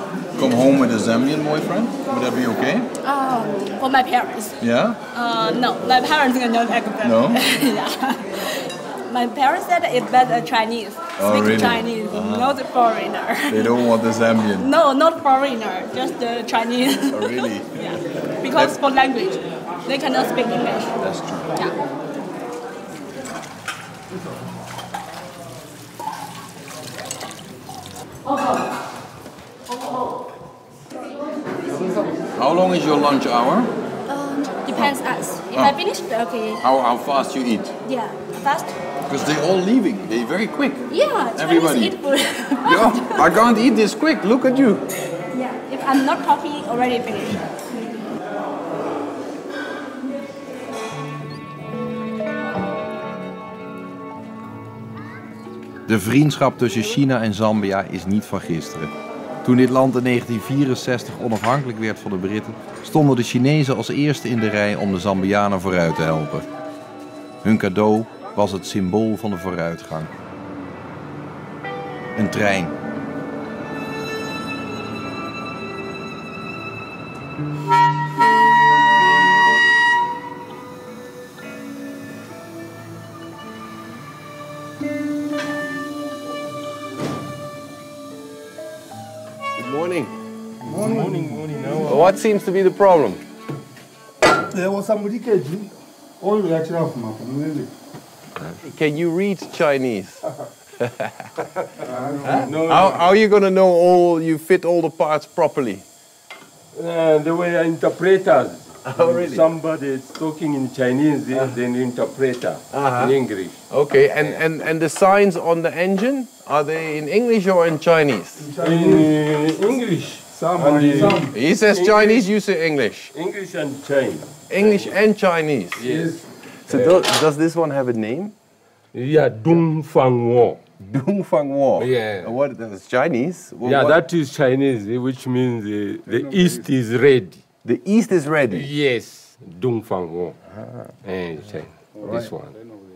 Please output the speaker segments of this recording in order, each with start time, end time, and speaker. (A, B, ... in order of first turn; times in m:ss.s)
0:00.4-0:02.9 A
0:03.0-0:04.6 B
0:04.6-0:05.0 A
0:05.1-0:13.9 B
0:07.0-0:07.4 A
0:11.2-0:12.6 A
0:13.5-0:14.7 A
0:14.5-0:21.0 B
0:17.1-0:17.8 A
0:18.5-0:18.8 A
0:21.0-0:21.6 A
0:32.3-0:33.7 A
0:34.1-0:36.6 B
0:36.6-0:37.7 A
0:37.8-0:38.7 B
0:39.1-0:41.9 A
0:40.9-0:43.3 B
0:42.6-0:44.8 A
0:45.3-0:47.5 B
0:55.9-0:58.9 A
0:59.4-1:06.4 A
1:07.4-1:10.1 A
1:12.2-1:12.7 A
1:29.6-1:30.1 A
1:30.6-1:32.1 C
1:30.6-1:32.0 D
1:31.9-1:33.2 A
1:34.5-1:37.7 D
1:38.6-1:40.2 A
1:41.8-1:42.5 D
1:42.2-1:43.1 C
1:42.2-1:45.8 A
1:46.7-1:53.6 C
1:48.8-1:49.5 A
1:52.7-1:53.1 A
1:53.7-1:58.5 A
1:58.4-1:59.1 D
1:58.5-2:02.3 C
2:00.3-2:01.3 D
2:01.3-2:03.1 A
2:03.1-2:05.0 C
2:04.5-2:06.1 A
2:05.8-2:07.1 C
2:06.6-2:08.3 A
2:08.9-2:10.7 C
2:10.8-2:14.0 A
2:11.8-2:12.4 C
2:13.6-2:17.4 C
2:17.6-2:18.7 A
2:18.5-2:20.4 C
2:21.0-2:22.6 C
2:22.0-2:22.3 A